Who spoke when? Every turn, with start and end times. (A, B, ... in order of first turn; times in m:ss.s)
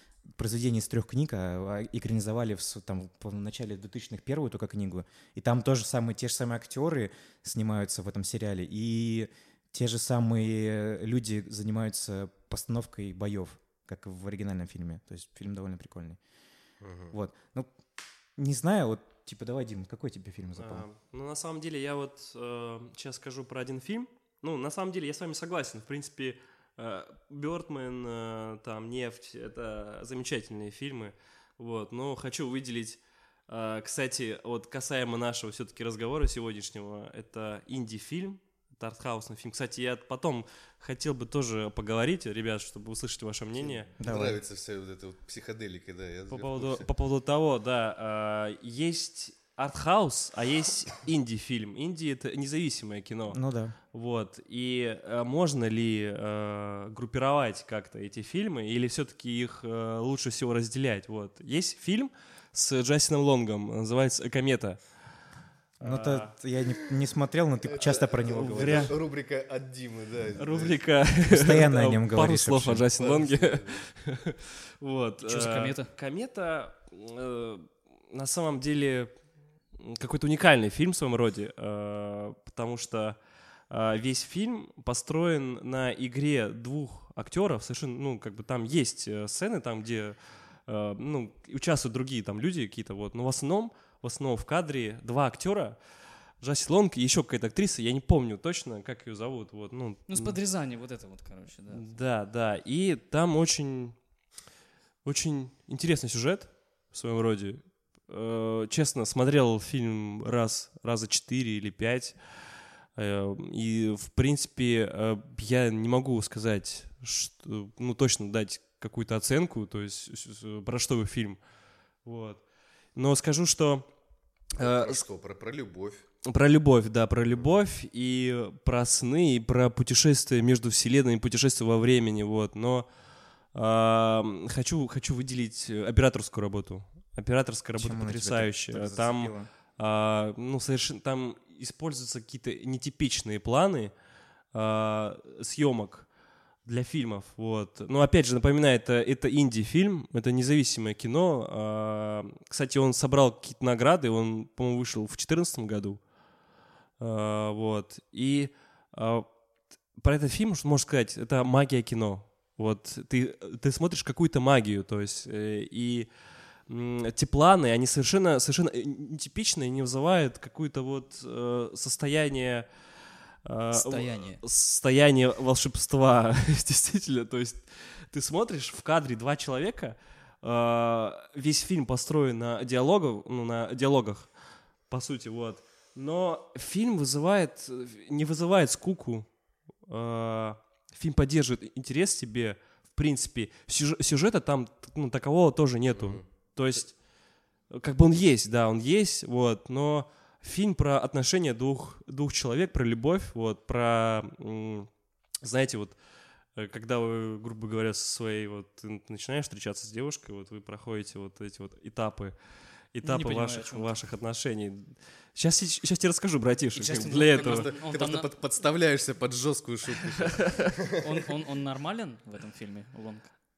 0:00.3-0:16.2 A
0:16.8-0:17.1 B
0:17.1-0:17.7 A
0:18.4-0:20.8 A
0:20.6-0:43.9 C
0:43.6-0:46.8 B
0:44.0-0:44.4 A
0:46.3-0:53.4 C
0:53.3-0:53.8 A
0:53.9-1:04.8 C
1:05.8-1:06.3 C
1:05.8-1:08.9 A
1:07.6-1:10.8 B
1:08.3-1:09.0 C
1:10.4-1:19.1 C
1:11.3-1:12.9 A
1:12.9-1:13.8 B
1:15.2-1:15.9 D
1:19.7-1:23.2 C
1:23.7-1:35.8 C
1:36.4-1:40.4 C
1:40.1-1:42.0 D
1:41.7-1:44.0 C
1:45.0-1:52.2 C
1:53.0-2:01.4 C
2:02.0-2:03.9 C
2:04.6-2:05.0 C
2:04.6-2:06.0 B
2:06.2-2:12.9 C
2:13.5-2:23.9 C
2:17.8-2:19.5 A
2:24.5-2:26.1 C
2:26.6-2:36.0 C
2:37.0-2:39.3 C
2:39.9-2:46.1 C
2:46.7-2:52.7 C
2:53.4-3:04.3 C
2:53.7-2:54.4 D
3:04.9-3:09.3 C
3:09.8-3:17.0 C
3:15.9-3:16.2 B
3:17.7-3:24.9 C
3:25.4-3:26.0 C
3:26.5-3:32.3 C
3:32.9-3:37.7 C
3:33.0-3:34.0 D
3:36.7-3:38.3 D
3:37.3-3:40.9 B
3:40.9-3:43.3 D